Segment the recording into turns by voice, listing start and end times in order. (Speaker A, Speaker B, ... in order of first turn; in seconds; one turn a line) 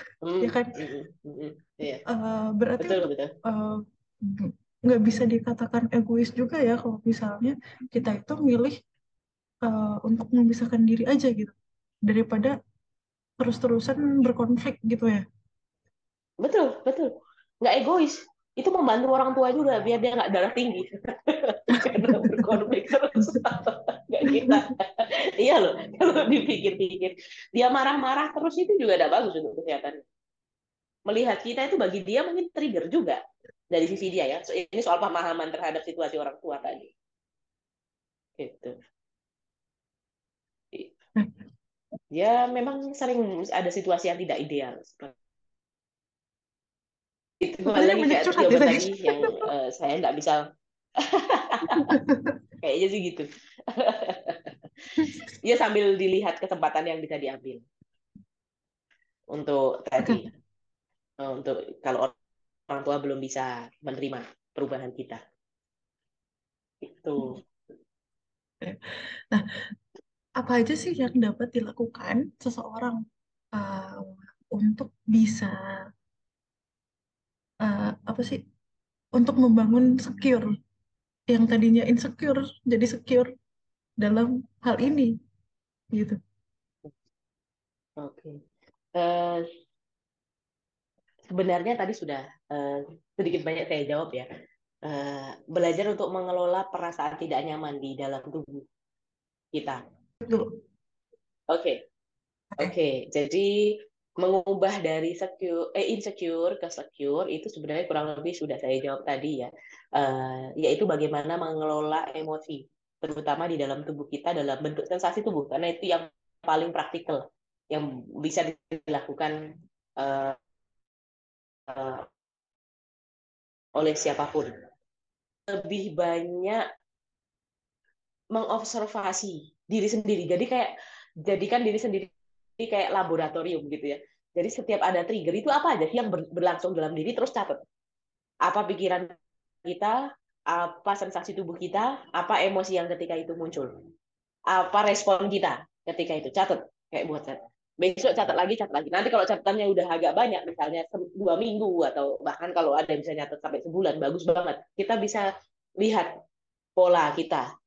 Speaker A: 0.2-2.0
Speaker B: 0.4-0.7
Speaker B: 2.1-8.7
Speaker A: 2.8-3.3
Speaker B: 9.7-11.5
Speaker B: 12.1-12.5
Speaker B: 13.4-15.2
Speaker A: 16.4-30.0
Speaker B: 21.8-23.4
Speaker B: 24.2-24.6
Speaker A: 31.1-33.2
Speaker A: 33.7-36.9
Speaker A: 38.4-38.7
Speaker A: 42.1-45.1
Speaker A: 47.4-50.4
Speaker B: 47.7-49.4
Speaker A: 51.0-51.9
Speaker B: 51.7-52.3
Speaker A: 52.6-53.2
Speaker A: 53.8-54.5
Speaker A: 55.4-57.6
Speaker A: 59.3-60.3
Speaker A: 61.2-62.1
Speaker A: 62.7-65.2
Speaker A: 66.8-67.4
Speaker B: 70.4-73.0
Speaker B: 73.5-74.0
Speaker B: 74.5-75.5
Speaker B: 77.6-78.4
Speaker B: 79.2-80.5
Speaker B: 81.3-83.3
Speaker B: 84.0-85.1
Speaker A: 88.0-88.3
Speaker A: 88.9-89.4
Speaker A: 91.3-94.2
Speaker A: 94.8-98.6
Speaker A: 99.5-99.8
Speaker A: 101.5-101.8
Speaker A: 102.6-103.5
Speaker A: 104.2-119.3
Speaker A: 120.0-120.3
Speaker A: 121.7-122.0
Speaker A: 123.8-124.5
Speaker A: 125.5-126.6
Speaker A: 128.3-130.7
Speaker A: 131.2-137.6
Speaker A: 138.4-139.1
Speaker A: 139.6-139.9
Speaker A: 140.5-143.7
Speaker A: 144.5-155.3
Speaker A: 155.8-156.1
Speaker A: 156.8-157.4